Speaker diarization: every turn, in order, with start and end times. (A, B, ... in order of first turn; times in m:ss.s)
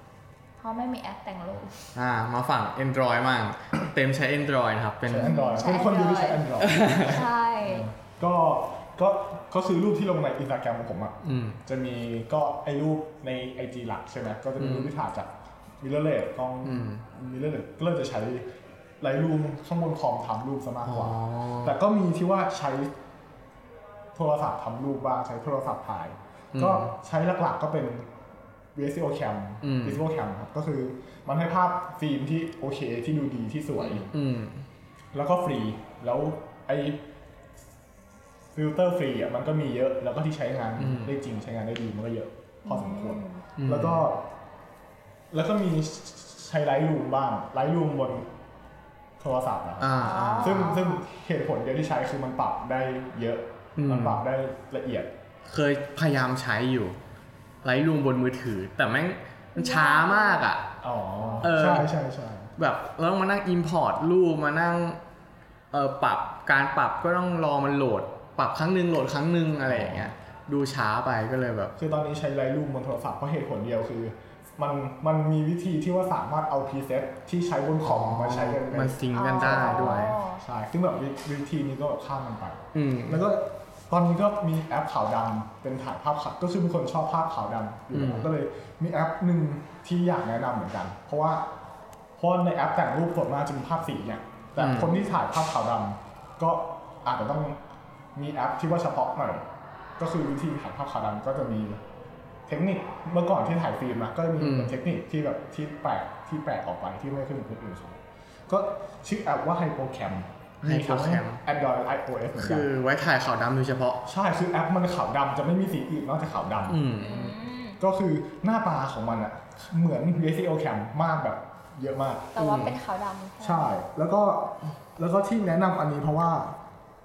0:00.6-0:01.9 A
0:01.9-0:05.5 B
0:05.0-0:18.5 C
0:05.2-0:06.5 A
0:06.6-0:07.2 B
0:07.0-0:07.9 A
0:11.2-0:11.6 B
0:14.6-0:14.9 B
0:16.6-0:17.0 B
0:19.0-0:22.9 C
0:20.8-0:21.7 B
0:24.1-0:28.1 C
0:26.5-0:26.9 B
0:28.7-0:34.1 C
0:29.6-0:30.0 B
0:33.8-0:34.6 B
0:35.1-0:37.0 C
0:38.5-0:44.3 C
0:40.8-0:41.1 B
0:42.6-0:43.4 A
0:43.6-0:44.1 B
0:45.3-0:48.3 C
0:49.2-0:55.1 C
0:49.8-0:50.8 B
0:50.0-0:51.0 A
0:53.8-0:54.2 B
0:55.4-0:57.0 B
0:57.6-1:00.7 B
0:59.5-1:00.5 A
1:00.8-1:02.5 C
1:01.4-1:01.9 B
1:02.6-1:05.0 B
1:05.7-1:11.7 B
1:09.6-1:10.1 C
1:11.8-1:31.5 C
1:17.8-1:20.2 B
1:19.1-1:20.4 A
1:22.7-1:23.2 B
1:27.9-1:28.3 B
1:32.2-1:37.6 C
1:34.6-1:34.9 B
1:38.1-1:39.4 C
1:40.0-1:41.8 C
1:42.5-1:52.7 C
1:44.4-1:44.8 B
1:50.6-1:51.4 B
1:52.4-1:54.0 B
1:54.0-1:56.8 C
1:56.7-1:57.4 B
1:57.0-1:57.8 A
1:57.8-2:02.4 C
2:02.3-2:03.7 A
2:02.4-2:02.8 B
2:03.4-2:06.6 C